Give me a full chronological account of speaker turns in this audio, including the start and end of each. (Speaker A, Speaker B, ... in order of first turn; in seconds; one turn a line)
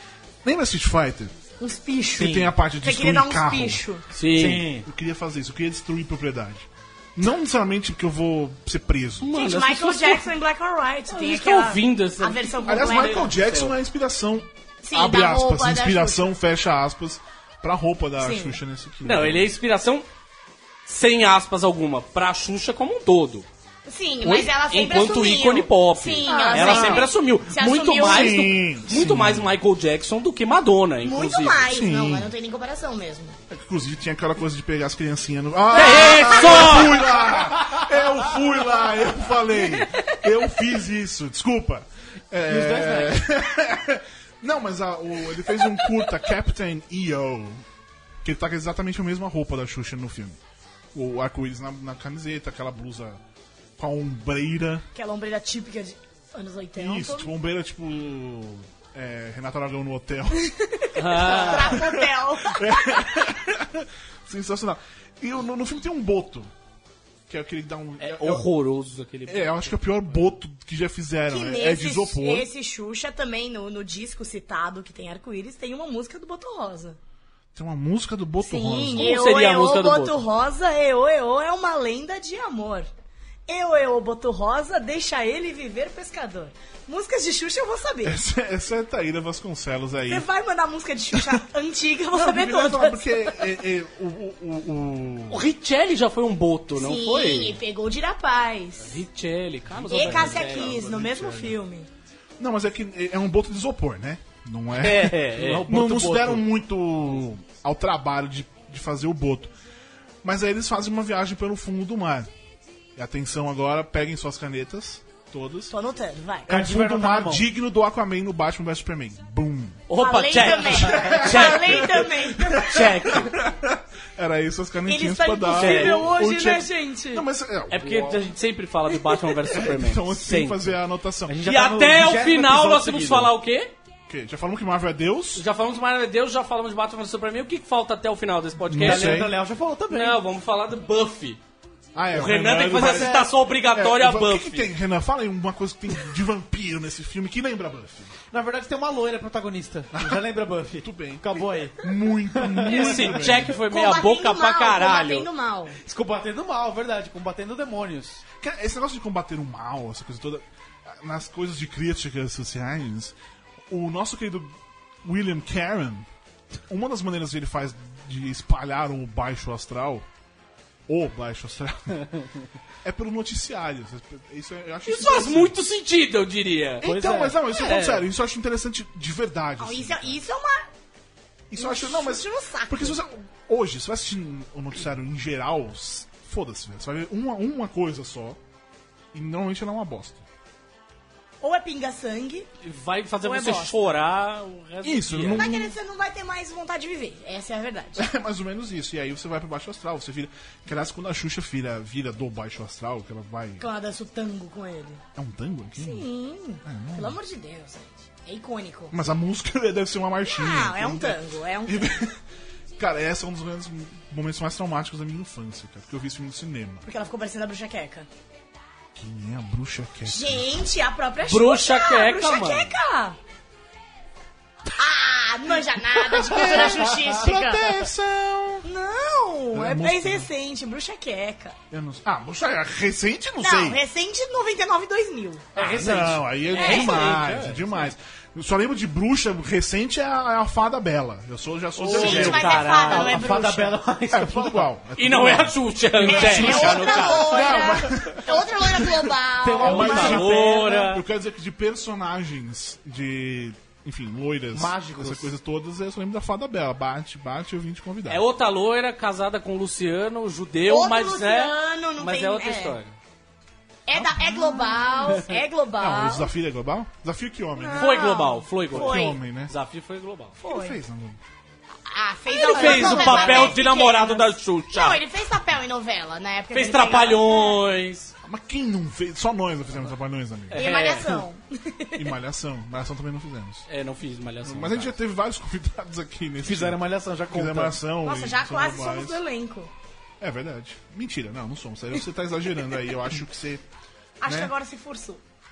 Speaker A: 0.4-1.3
Speaker B: 1.6-4.0
Speaker C: 2.2-2.5
Speaker A: 2.2-3.8
Speaker D: 4.1-4.7
Speaker C: 4.3-4.9
Speaker A: 4.8-9.3
Speaker D: 9.2-10.3
Speaker B: 9.3-13.3
Speaker D: 11.1-13.7
Speaker A: 12.6-19.5
Speaker B: 14.8-16.3
Speaker B: 18.2-18.6
Speaker D: 19.0-20.1
Speaker D: 20.9-23.4
Speaker B: 23.9-28.4
Speaker D: 24.2-31.6
Speaker A: 26.5-27.0
Speaker A: 28.0-29.6
Speaker B: 31.0-33.4
Speaker A: 31.7-32.3
Speaker A: 33.5-47.6
Speaker D: 35.7-37.1
Speaker C: 42.5-43.2
Speaker A: 48.2-50.4
Speaker A: 50.9-53.2
Speaker A: 53.8-54.9
Speaker B: 54.9-57.3
Speaker A: 56.8-60.5
Speaker B: 60.6-63.1
Speaker D: 61.0-61.8
Speaker A: 61.4-66.5
Speaker A: 67.3-68.5
Speaker D: 68.0-70.0
Speaker A: 69.2-72.5
Speaker B: 71.3-77.0
Speaker A: 77.5-79.2
Speaker B: 78.4-82.9
Speaker D: 78.9-80.2
Speaker B: 83.5-88.2
Speaker A: 88.0-90.2
Speaker B: 90.1-93.3
Speaker A: 92.1-95.5
Speaker D: 95.3-97.6
Speaker B: 96.7-99.0
Speaker D: 98.8-101.0
Speaker A: 99.8-101.6
Speaker B: 99.9-101.9
Speaker A: 102.4-109.5
Speaker D: 104.8-106.4
Speaker A: 110.2-112.3
Speaker A: 113.0-115.7
Speaker B: 115.7-116.5
Speaker C: 116.5-117.5
Speaker A: 116.5-119.8
Speaker D: 119.9-123.3
Speaker B: 120.0-122.9
Speaker A: 120.5-128.3
Speaker B: 124.9-127.2
Speaker D: 125.5-126.1
Speaker D: 127.7-130.7
Speaker A: 129.4-131.4
Speaker C: 131.3-133.3
Speaker D: 131.4-133.7
Speaker A: 134.1-135.4
Speaker D: 135.3-139.3
Speaker A: 138.7-139.3
Speaker C: 138.8-140.2
Speaker D: 139.9-141.4
Speaker A: 141.9-148.1
Speaker D: 142.1-144.7
Speaker C: 142.7-143.3
Speaker C: 148.3-151.8
Speaker A: 149.9-150.2
Speaker A: 150.8-153.6
Speaker D: 152.7-155.3
Speaker B: 153.0-155.8
Speaker C: 155.8-158.2
Speaker A: 158.4-163.1
Speaker A: 163.7-164.5
Speaker A: 165.0-166.1
Speaker A: 166.7-170.1
Speaker A: 170.9-172.1
Speaker A: 172.8-175.6
Speaker D: 174.8-178.0
Speaker A: 176.8-180.2
Speaker C: 176.8-177.4
Speaker B: 179.6-180.7
Speaker A: 181.5-188.4
Speaker B: 181.6-183.0
Speaker A: 189.1-190.2
Speaker B: 191.4-192.5
Speaker D: 192.6-195.6
Speaker B: 193.2-193.8
Speaker A: 194.8-195.7
Speaker B: 195.3-198.1
Speaker A: 198.0-203.6
Speaker B: 203.6-205.0
Speaker A: 205.1-206.1
Speaker B: 205.8-209.0
Speaker A: 206.6-207.2
Speaker A: 208.9-212.2
Speaker B: 210.2-211.8
Speaker A: 212.8-216.8
Speaker B: 216.8-218.1
Speaker A: 218.9-220.6
Speaker B: 220.1-223.2
Speaker D: 221.3-222.7
Speaker B: 224.8-227.8
Speaker A: 226.1-228.7
Speaker B: 228.6-231.6
Speaker A: 229.5-230.3
Speaker A: 231.7-233.8
Speaker B: 233.4-235.4
Speaker C: 235.5-236.2
Speaker D: 235.6-237.7
Speaker A: 235.7-242.7
Speaker B: 236.6-237.1
Speaker D: 241.8-243.3
Speaker B: 241.9-243.8
Speaker C: 242.8-244.7
Speaker A: 244.1-258.2
Speaker D: 244.9-247.6
Speaker B: 246.0-250.2
Speaker C: 246.2-247.0
Speaker C: 249.4-250.9
Speaker D: 249.6-251.0
Speaker C: 254.5-255.3
Speaker D: 258.1-262.9
Speaker B: 260.7-262.8
Speaker B: 263.9-266.3
Speaker A: 263.9-265.2
Speaker A: 265.8-268.0
Speaker B: 267.6-269.2
Speaker D: 267.8-270.4
Speaker A: 268.7-269.5
Speaker B: 270.4-270.8
Speaker A: 270.4-271.2
Speaker B: 271.9-277.6
Speaker D: 272.3-275.0
Speaker C: 272.6-273.3
Speaker D: 276.5-278.1
Speaker A: 278.2-281.0
Speaker D: 280.5-281.3
Speaker B: 280.5-282.1
Speaker A: 281.9-283.6
Speaker D: 283.7-284.9
Speaker A: 284.4-289.2
Speaker C: 286.4-287.8
Speaker B: 288.0-289.7
Speaker A: 290.2-293.6
Speaker B: 294.2-295.2
Speaker A: 294.2-294.5